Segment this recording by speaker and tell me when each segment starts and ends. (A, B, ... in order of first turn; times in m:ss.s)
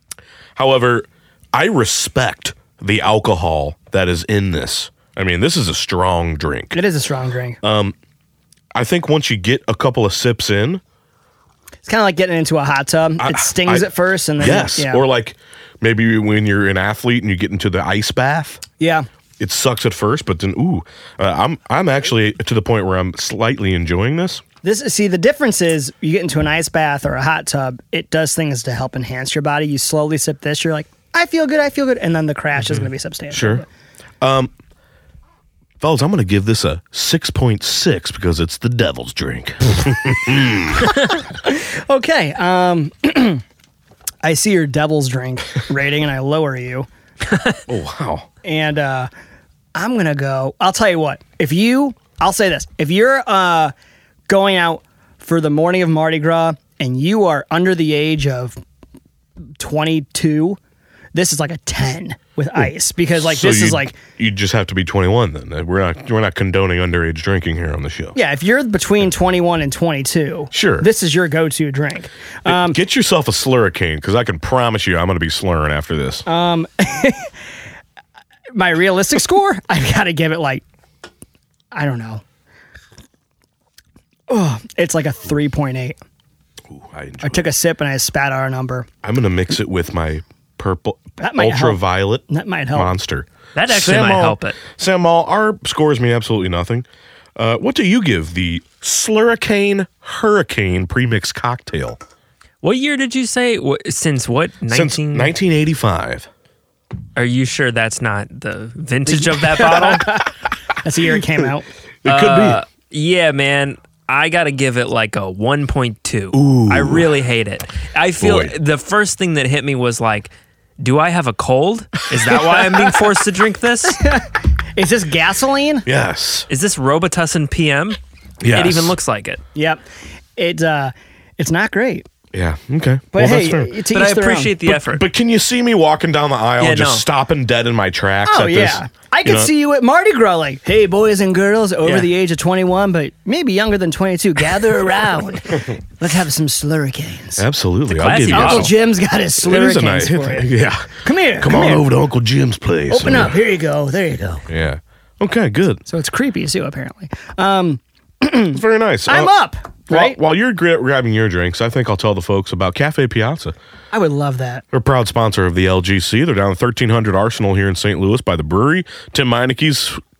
0:00.6-0:06.8 A
0:06.7-0:07.6 B
0:07.6-0:07.9 A
0:08.7-0:10.8 A
0:11.8-0:15.0 B
0:13.2-0:18.6 A
0:18.8-0:19.1 B
0:19.4-0:24.4 A
0:24.6-0:33.6 B
0:33.3-0:33.6 A
0:34.2-0:34.5 A
0:35.8-0:40.9 A
0:40.9-0:43.4 B
0:44.2-0:46.9 B
0:47.3-0:47.6 C
0:47.7-0:48.3 A
0:48.4-0:49.1 B
0:49.7-0:53.7 B
0:54.3-0:58.6 B
0:59.6-1:00.6 B
1:01.1-1:04.0 B
1:03.1-1:08.2 A
1:08.1-1:12.8 B
1:10.5-1:10.9 A
1:12.4-1:16.2 A
1:16.2-1:17.3 B
1:18.5-1:20.6 B
1:21.7-1:22.2 B
1:24.3-1:26.0 B
1:26.7-1:27.4 A
1:27.2-1:28.9 B
1:29.0-1:42.0 A
1:31.2-1:32.9 B
1:33.5-1:34.6 C
1:42.6-1:45.3 C
1:44.7-1:46.3 A
1:47.1-1:50.2 C
1:49.1-1:50.3 B
1:50.8-1:51.7 B
1:52.0-1:52.6 A
1:52.0-2:04.0 C
1:56.3-1:57.1 A
1:58.2-1:58.5 A
2:03.9-2:05.8 B
2:05.8-2:06.5 A
2:06.5-2:08.0 C
2:08.4-2:08.9 A
2:08.5-2:09.4 C
2:09.5-2:09.8 B
2:10.4-2:12.0 B
2:12.3-2:13.7 A
2:13.1-2:14.6 B
2:13.9-2:15.0 C
2:14.6-2:19.5 A
2:16.6-2:17.0 C
2:18.2-2:27.4 B
2:21.8-2:22.1 C
2:27.4-2:28.7 A
2:27.9-2:28.7 C
2:28.3-2:30.5 B
2:29.4-2:33.3 A
2:31.0-2:31.8 B
2:32.9-2:34.4 B
2:34.5-2:35.8 A
2:35.9-2:40.2 B
2:38.5-2:39.3 A
2:39.9-2:43.5 A
2:43.9-2:44.6 B
2:44.7-2:50.0 A